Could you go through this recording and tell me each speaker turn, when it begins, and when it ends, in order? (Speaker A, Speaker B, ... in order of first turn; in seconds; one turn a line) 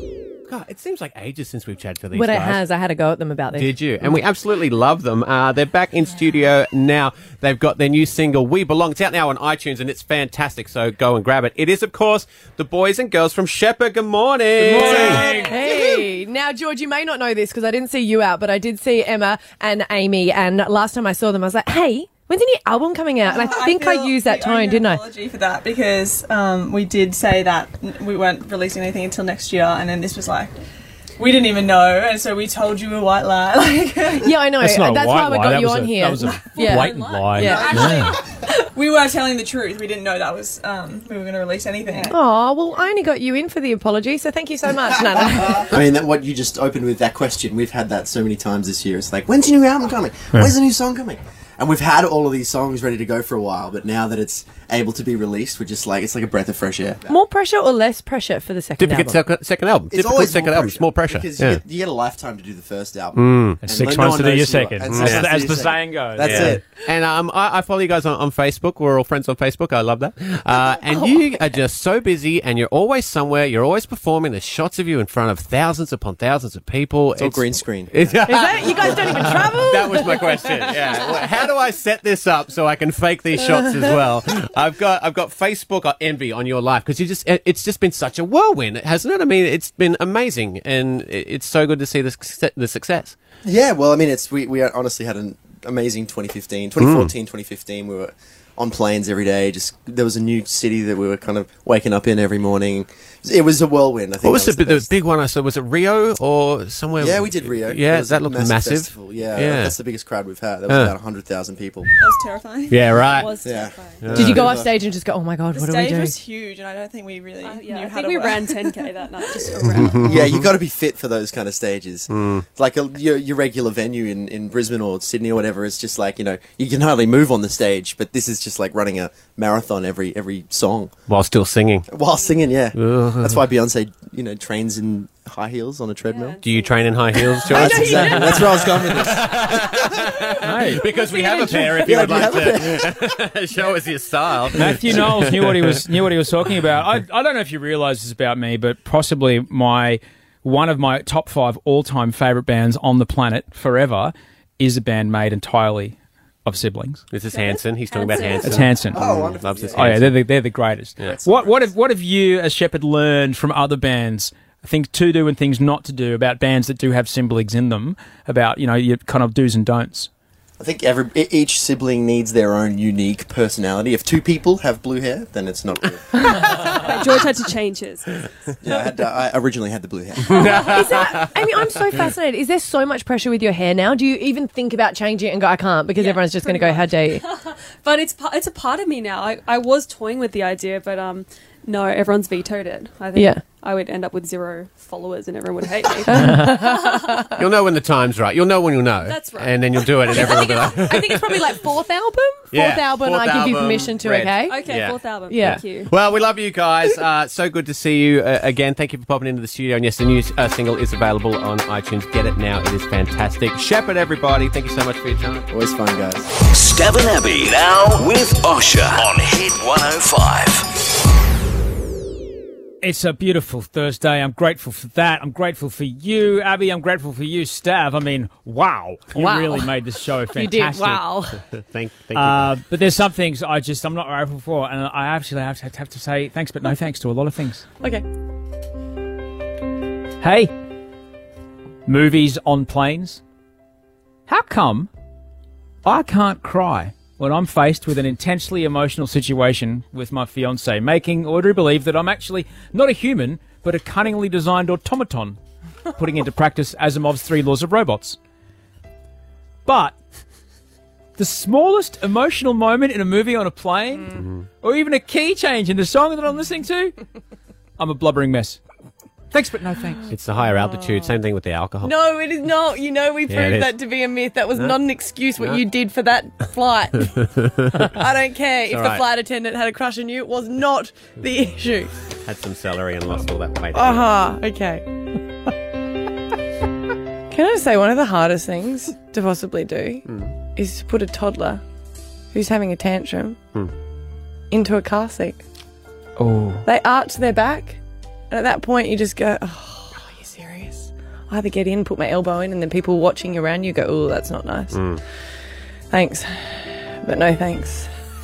Speaker A: 0.5-2.6
Speaker B: 2.1-3.8
Speaker A: 3.5-15.3
Speaker C: 14.6-15.8
Speaker D: 14.8-16.0
Speaker B: 15.2-25.1
Speaker D: 23.2-30.6
Speaker D: 31.2-34.4
Speaker B: 34.2-38.1
Speaker C: 34.6-38.1
Speaker D: 36.3-42.2
Speaker E: 36.4-37.9
Speaker B: 42.1-45.7
Speaker F: 45.6-57.1
Speaker B: 57.1-59.2
Speaker A: 58.8-61.6
Speaker F: 59.9-66.6
Speaker A: 63.1-63.6
Speaker C: 63.6-66.6
Speaker A: 64.9-65.3
Speaker A: 66.2-93.2
Speaker B: 70.5-71.5
Speaker F: 77.2-77.9
Speaker B: 78.2-81.2
Speaker F: 93.4-104.9
Speaker A: 96.8-97.1
Speaker A: 104.2-109.8
Speaker F: 107.0-111.9
Speaker A: 110.7-111.0
Speaker D: 112.0-113.2
Speaker A: 112.7-113.4
Speaker E: 113.0-114.0
Speaker F: 113.4-114.7
Speaker A: 114.0-114.6
Speaker B: 114.1-116.2
Speaker D: 115.5-120.1
Speaker E: 117.4-120.2
Speaker A: 119.8-120.5
Speaker F: 120.0-131.0
Speaker A: 122.1-122.5
Speaker A: 131.1-131.9
Speaker F: 131.9-136.4
Speaker A: 132.8-133.4
Speaker E: 136.1-138.7
Speaker A: 136.4-145.9
Speaker F: 137.4-140.3
Speaker C: 138.0-138.4
Speaker C: 140.4-142.5
Speaker F: 141.1-143.1
Speaker B: 141.4-141.7
Speaker C: 144.5-157.0
Speaker A: 157.1-160.2
Speaker E: 157.2-158.9
Speaker C: 158.4-159.0
Speaker F: 158.9-159.9
Speaker C: 159.7-170.1
Speaker F: 161.0-161.6
Speaker F: 170.6-176.5
Speaker E: 176.3-178.1
Speaker F: 178.6-180.6
Speaker A: 180.2-182.0
Speaker B: 180.3-187.2
Speaker E: 185.9-197.3
Speaker B: 193.1-193.4
Speaker B: 196.1-197.3
Speaker A: 197.4-201.4
Speaker E: 199.0-200.6
Speaker B: 200.0-204.8
Speaker A: 202.5-215.5
Speaker E: 204.5-205.9
Speaker B: 205.3-205.7
Speaker F: 215.5-216.3
Speaker G: 216.4-220.7
Speaker C: 222.8-231.1
Speaker B: 229.1-229.7
Speaker B: 230.3-231.4
Speaker A: 231.4-232.6
Speaker C: 232.1-237.7
Speaker C: 240.2-240.5
Speaker C: 241.9-243.2
Speaker C: 244.3-244.9
Speaker C: 245.8-255.4
Speaker C: 255.9-258.2
Speaker C: 259.6-260.0
Speaker C: 261.2-267.0
Speaker A: 264.1-264.5
Speaker C: 267.8-268.6
Speaker C: 269.3-270.1
Speaker A: 270.1-271.9
Speaker B: 270.4-270.9
Speaker B: 271.8-281.9
Speaker A: 273.3-273.8
Speaker A: 277.1-277.9
Speaker A: 278.6-279.1
Speaker A: 282.2-284.2
Speaker B: 283.7-284.9
Speaker B: 287.3-291.6
Speaker A: 290.1-290.3
Speaker B: 292.3-293.4
Speaker B: 294.5-295.4
Speaker C: 296.2-296.6
Speaker B: 296.6-297.8
Speaker B: 298.3-304.9
Speaker A: 304.7-305.0
Speaker B: 305.9-307.9